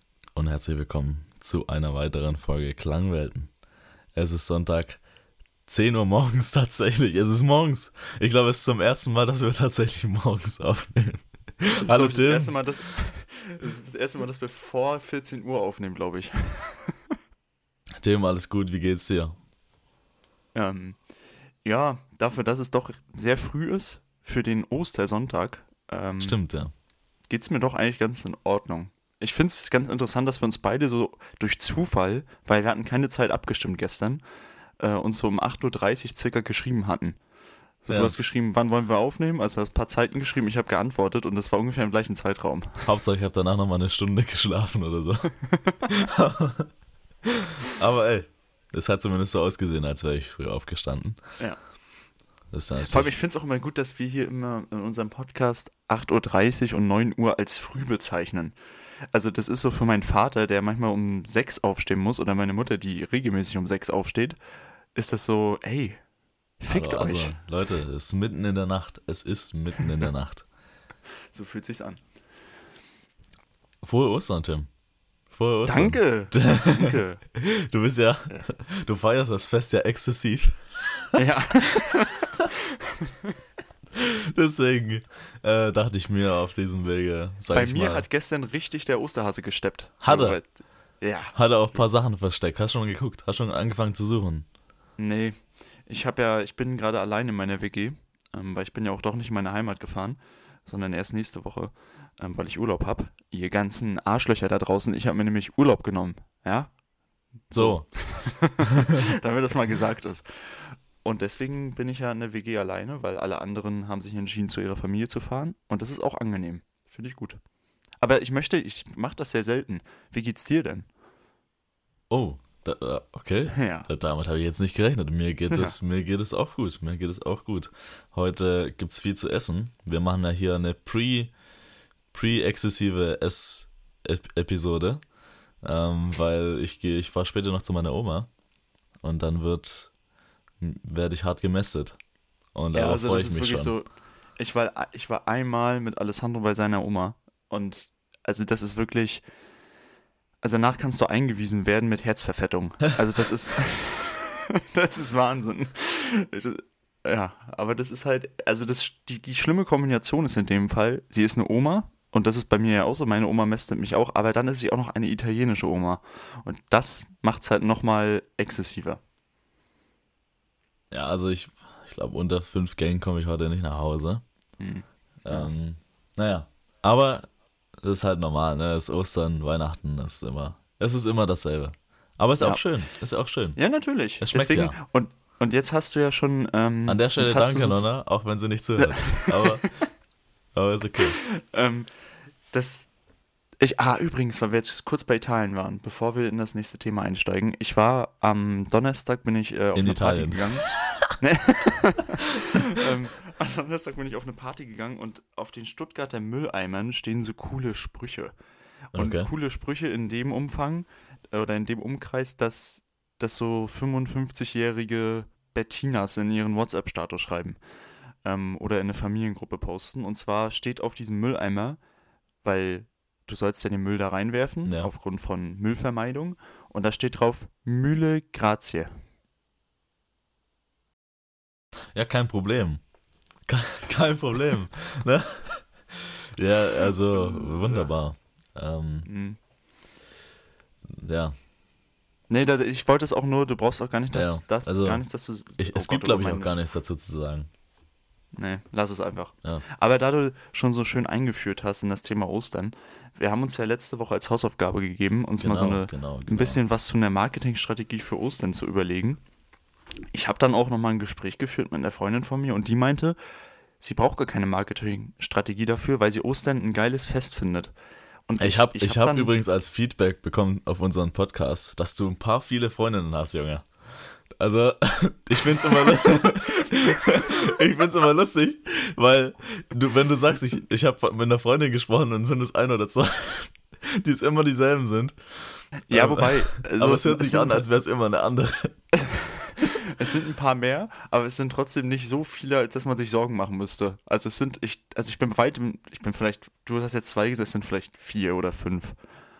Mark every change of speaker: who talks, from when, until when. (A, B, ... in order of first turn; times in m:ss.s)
0:00.3-0:03.5 A
0:04.1-0:05.0 A
0:05.7-0:12.5 A
0:11.8-0:17.2 B
0:18.0-0:19.4 A
0:20.5-0:21.0 B
0:21.6-0:26.4 B
0:26.2-0:26.7 A
0:27.3-0:34.2 B
0:34.8-0:37.2 B
0:37.8-0:42.9 B
0:37.9-0:38.2 A
0:42.8-0:45.3 A
0:45.4-0:45.9 B
0:45.8-0:46.7 A
0:47.3-0:51.2 A
0:52.5-0:53.1 A
0:52.9-0:58.6 B
0:59.1-1:04.4 B
1:04.9-1:06.0 B
1:06.6-1:07.4 B
1:06.7-1:10.4 A
1:11.3-1:12.0 B
1:13.8-1:14.7 A
1:15.3-1:21.2 A
1:15.6-1:17.2 B
1:21.1-1:23.3 B
1:23.9-1:28.0 A
1:27.5-1:31.3 B
1:30.0-1:30.4 A
1:31.3-1:34.5 A
1:35.0-1:46.7 B
1:47.5-1:57.4 B
1:47.5-1:47.9 A
1:48.6-1:49.0 A
1:58.0-2:00.9 B
2:02.1-2:11.3 A
2:03.5-2:03.9 B
2:05.5-2:05.7 B
2:12.1-2:15.0 A
2:15.6-2:18.3 A
2:19.0-2:19.9 A
2:20.6-2:22.0 A
2:22.5-2:23.7 A
2:22.7-2:29.2 B
2:30.4-2:49.0 B
2:50.9-2:54.2 A
2:54.6-2:55.5 B
2:55.2-2:57.3 A
2:57.8-3:03.6 A
3:03.6-3:07.8 B
3:04.2-3:04.8 A
3:06.9-3:09.6 A
3:08.8-3:09.7 B
3:10.5-3:11.2 A
3:11.2-3:11.9 B
3:12.5-3:12.9 B
3:13.6-3:28.3 B
3:19.7-3:20.4 A
3:28.9-3:37.6 B
3:28.9-3:29.3 A
3:38.2-3:41.8 B
3:42.4-3:48.9 B
3:44.6-3:44.9 A
3:51.9-3:52.8 A
3:53.4-3:59.1 A
3:57.1-3:57.9 B
3:59.0-3:59.4 B
4:01.0-4:01.3 A
4:02.3-4:06.6 B
4:04.1-4:05.0 A
4:05.6-4:07.5 A
4:08.3-4:19.2 B
4:15.4-4:16.6 A
4:20.1-4:23.2 B
4:23.8-4:27.7 B
4:28.3-4:29.3 B
4:28.4-4:33.7 A
4:34.4-4:48.8 A
4:35.5-4:37.6 B
4:45.9-4:47.6 B
4:48.9-4:59.0 B